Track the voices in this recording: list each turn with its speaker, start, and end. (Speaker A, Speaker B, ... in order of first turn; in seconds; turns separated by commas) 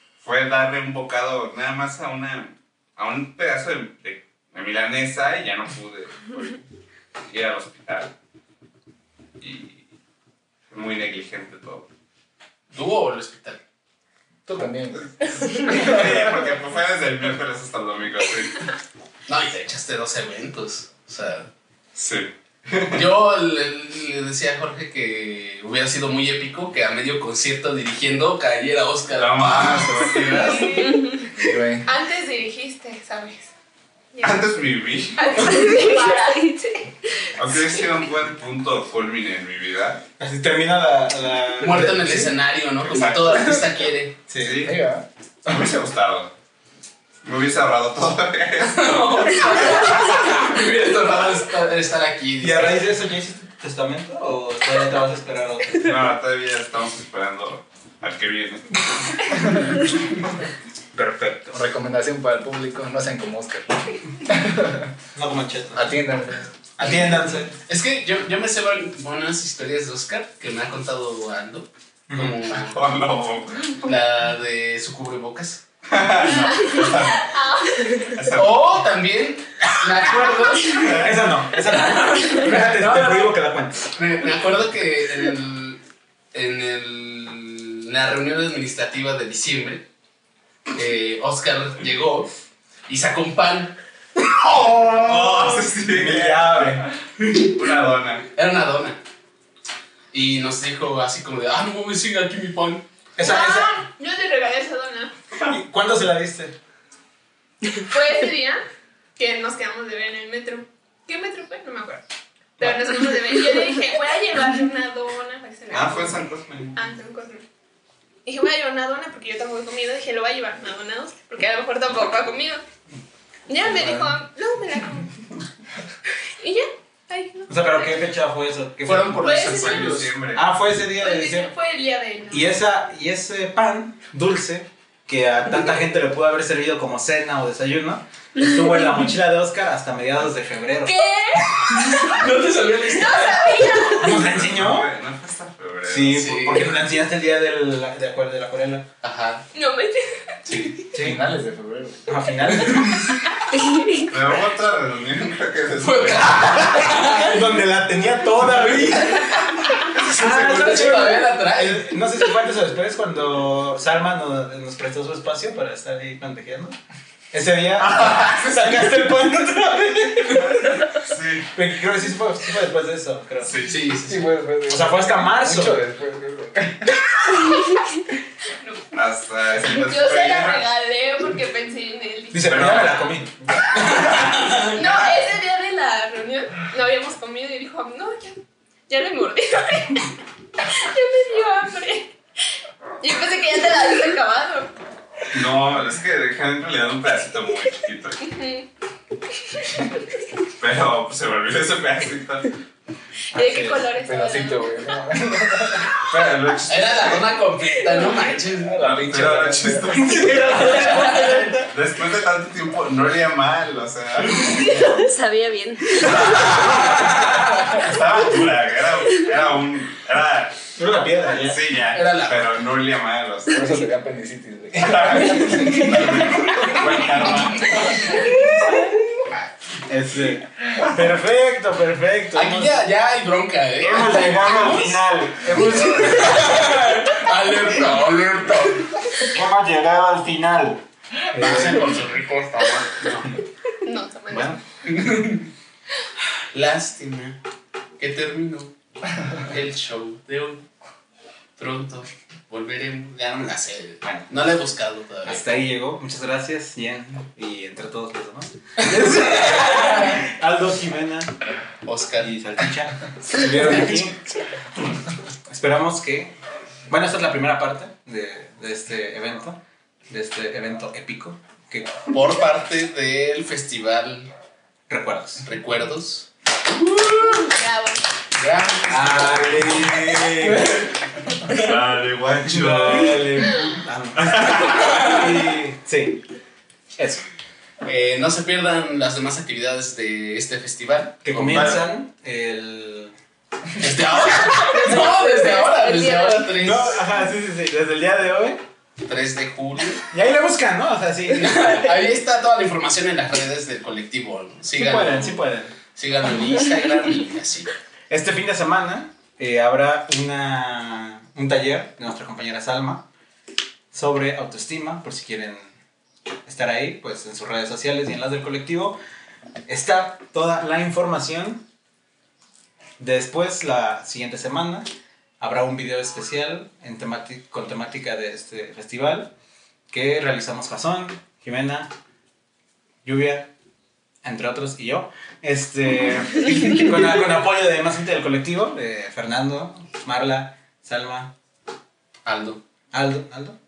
Speaker A: 0.2-6.6, Speaker A: 7.2-8.1, Speaker A: 9.4-9.9, Speaker A: 10.7-11.9, Speaker B: 12.7-13.6, Speaker C: 14.4-16.2, Speaker A: 14.9-18.7, Speaker B: 19.3-21.5, Speaker A: 21.9-23.1, Speaker B: 22.9-30.9, Speaker A: 29.1-30.6, Speaker D: 30.3-33.5, Speaker C: 31.4-31.9, Speaker D: 34.1-34.6, Speaker A: 34.2-35.7, Speaker D: 35.1-36.8, Speaker E: 35.6-36.9, Speaker A: 37.3-40.0, Speaker F: 40.2-42.3, Speaker B: 41.6-44.2, Speaker A: 42.8-44.8, Speaker F: 44.3-44.8, Speaker C: 44.6-45.0, Speaker A: 45.4-46.3, Speaker A: 47.2-50.1, Speaker B: 48.7-52.8, Speaker F: 52.4-55.9, Speaker A: 55.8-59.5, Speaker F: 60.9-61.7, Speaker C: 61.5-64.9, Speaker F: 65.1-66.0, Speaker C: 65.7-66.5, Speaker F: 66.8-67.5, Speaker B: 67.7-72.8, Speaker F: 72.1-72.4, Speaker A: 72.7-73.8, Speaker B: 73.8-75.6, Speaker A: 75.9-77.3, Speaker D: 76.5-78.2, Speaker A: 78.1-78.8, Speaker B: 78.3-80.9, Speaker A: 79.7-81.2, Speaker F: 80.6-83.9, Speaker B: 81.7-83.4, Speaker B: 83.9-85.8, Speaker B: 86.3-89.9, Speaker B: 90.7-92.3, Speaker B: 92.9-93.8, Speaker A: 94.4-96.8, Speaker F: 95.4-96.9, Speaker B: 97.2-97.5, Speaker A: 97.4-98.2, Speaker B: 98.3-99.0, Speaker B: 100.1-102.9, Speaker F: 103.2-103.9, Speaker D: 103.2-105.1, Speaker F: 105.5-106.5, Speaker D: 107.8-108.6, Speaker D: 109.2-112.0, Speaker D: 112.6-117.4, Speaker A: 112.6-112.8, Speaker A: 115.7-116.8, Speaker D: 118.2-122.6, Speaker D: 123.5-125.2, Speaker D: 126.4-128.1, Speaker F: 127.5-131.5, Speaker B: 128.8-130.1, Speaker D: 129.2-130.0, Speaker A: 129.5-130.4, Speaker D: 130.9-132.6, Speaker F: 132.3-141.0, Speaker D: 140.8-142.1, Speaker B: 141.5-144.0, Speaker D: 142.9-144.3, Speaker F: 144.0-144.9, Speaker A: 144.1-146.3, Speaker F: 145.9-148.9, Speaker B: 146.1-146.8, Speaker B: 149.0-149.5, Speaker D: 149.5-150.7, Speaker B: 150.5-150.8, Speaker F: 150.9-151.2, Speaker C: 150.9-152.0, Speaker F: 152.1-153.4, Speaker A: 154.1-157.0, Speaker B: 155.7-157.4, Speaker F: 156.5-159.4, Speaker B: 158.7-162.0, Speaker F: 160.1-166.8, Speaker F: 167.3-170.7, Speaker A: 170.9-171.5, Speaker F: 171.5-173.6, Speaker A: 173.4-173.9, Speaker B: 173.6-174.3, Speaker C: 174.1-176.9, Speaker F: 174.7-175.8, Speaker D: 178.5-178.9, Speaker A: 178.9-180.7, Speaker D: 179.6-183.1, Speaker F: 182.3-184.6, Speaker A: 182.5-183.1, Speaker D: 183.6-188.4, Speaker B: 183.7-184.7, Speaker D: 188.9-190.1, Speaker D: 190.7-192.1, Speaker D: 193.0-194.7, Speaker A: 195.3-198.2, Speaker D: 198.2-198.7, Speaker D: 199.3-200.1, Speaker A: 200.6-202.5, Speaker D: 203.3-205.0, Speaker F: 203.4-203.8, Speaker C: 204.0-206.3, Speaker A: 206.0-207.2, Speaker B: 206.7-208.9, Speaker D: 207.8-208.3, Speaker C: 208.6-211.4, Speaker A: 208.8-211.1, Speaker F: 209.1-211.6, Speaker B: 210.7-211.2, Speaker A: 211.6-214.9, Speaker E: 214.5-216.9, Speaker A: 216.3-217.0, Speaker A: 217.7-220.8, Speaker F: 220.8-221.6, Speaker A: 221.4-223.8, Speaker B: 221.9-222.6, Speaker C: 223.5-226.5, Speaker A: 224.9-228.0, Speaker F: 225.3-225.7, Speaker B: 226.1-228.4, Speaker F: 229.9-232.9, Speaker B: 232.3-239.1, Speaker F: 233.8-236.6, Speaker C: 235.4-236.3, Speaker F: 239.2-242.1, Speaker B: 241.3-243.4, Speaker C: 241.4-242.2, Speaker D: 243.8-244.6, Speaker F: 244.3-244.6, Speaker B: 244.8-245.5, Speaker B: 246.5-247.4, Speaker B: 248.0-248.7, Speaker B: 249.3-250.7, Speaker B: 251.6-255.4, Speaker F: 254.0-254.3, Speaker F: 255.2-261.5, Speaker B: 259.2-260.2, Speaker B: 261.8-262.3, Speaker F: 262.2-264.3, Speaker F: 265.5-266.3, Speaker F: 266.9-272.0, Speaker B: 272.1-274.3, Speaker F: 274.9-275.4, Speaker B: 275.4-277.5, Speaker D: 277.3-278.1, Speaker B: 278.4-280.9, Speaker F: 278.9-280.9, Speaker B: 281.5-281.7, Speaker A: 281.5-283.3, Speaker F: 282.3-286.2, Speaker A: 284.2-285.0, Speaker B: 284.8-285.2, Speaker F: 286.9-287.2, Speaker B: 287.8-291.7, Speaker F: 291.2-293.1, Speaker A: 291.3-291.8, Speaker B: 293.8-297.0, Speaker F: 294.5-295.0, Speaker E: 294.6-296.6, Speaker F: 296.6-298.6, Speaker B: 299.0-300.1, Speaker F: 300.1-301.9, Speaker B: 301.4-305.4, Speaker F: 304.8-305.7, Speaker B: 305.9-307.7, Speaker F: 308.1-313.1, Speaker F: 313.9-315.7, Speaker F: 316.4-319.0, Speaker F: 319.7-321.6, Speaker F: 323.0-329.3, Speaker F: 329.9-331.9, Speaker F: 333.0-333.5, Speaker F: 334.2-341.3, Speaker B: 342.3-342.6, Speaker F: 342.9-343.6